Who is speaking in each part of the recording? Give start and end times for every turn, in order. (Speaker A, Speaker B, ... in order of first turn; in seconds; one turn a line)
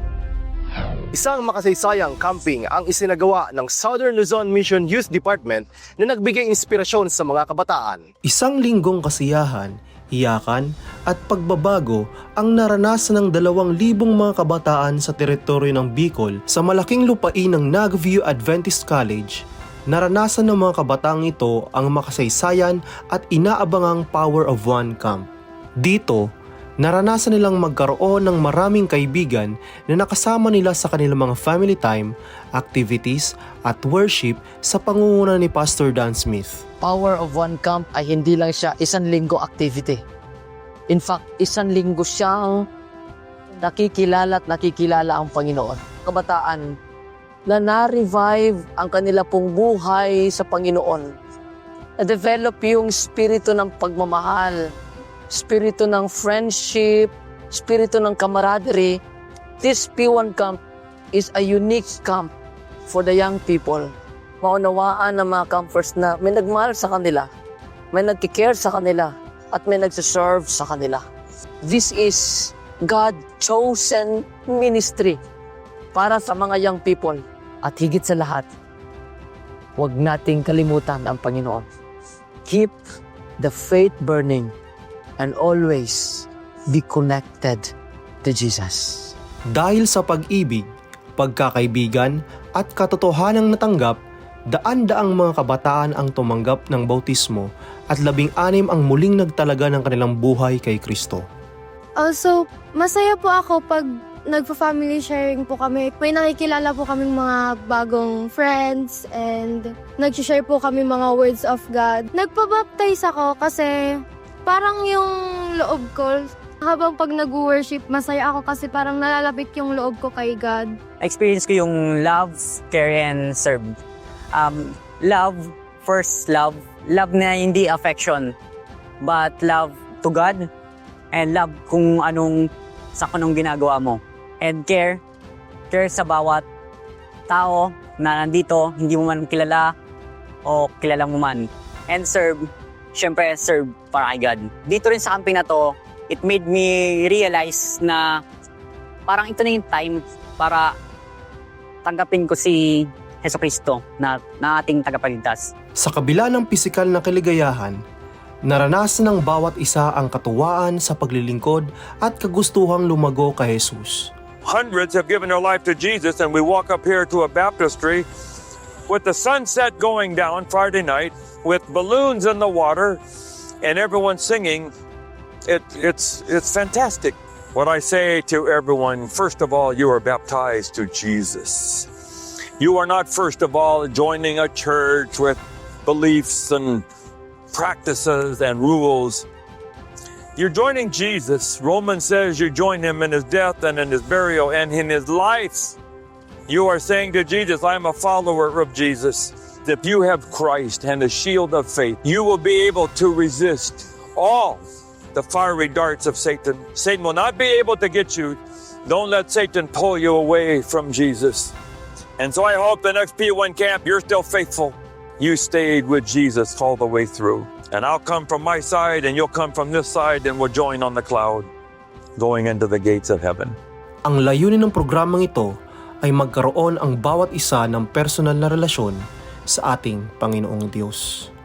Speaker A: 1.1-8.1
Speaker B: 8.2-19.4
Speaker B: 19.9-25.2
Speaker B: 25.8-26.2
Speaker B: 26.8-36.6
Speaker C: 36.8-40.0
Speaker C: 40.9-42.5
Speaker C: 43.6-46.7
Speaker C: 47.5-51.1
Speaker C: 52.0-54.6
Speaker C: 55.3-59.0
Speaker C: 59.6-60.6
Speaker C: 61.1-62.3
Speaker C: 62.9-67.3
Speaker C: 67.9-71.0
Speaker C: 71.6-75.2
Speaker C: 75.9-78.5
Speaker C: 79.8-81.7
Speaker C: 82.5-82.8
Speaker C: 83.4-84.5
Speaker C: 85.2-87.7
Speaker C: 88.2-89.1
Speaker B: 89.5-90.7
Speaker B: 91.2-94.0
Speaker B: 94.5-101.2
Speaker D: 102.0-120.8
Speaker E: 121.0-123.8
Speaker E: 124.3-128.3
Speaker E: 129.0-130.5
Speaker E: 131.1-135.0
Speaker E: 135.7-136.4
Speaker E: 137.3-139.7
Speaker E: 140.4-148.2
Speaker E: 149.1-150.7
Speaker E: 151.8-155.5
Speaker B: 155.8-157.8
Speaker B: 158.5-164.1
Speaker F: 164.4-168.1
Speaker F: 168.9-173.0
Speaker F: 173.6-174.7
Speaker F: 175.5-181.9
Speaker F: 182.6-186.8
Speaker F: 187.5-189.2
Speaker F: 190.3-195.8
Speaker F: 196.5-211.5
Speaker F: 212.2-221.5
Speaker F: 222.2-223.6
Speaker B: 224.1-225.5
Speaker B: 226.0-231.1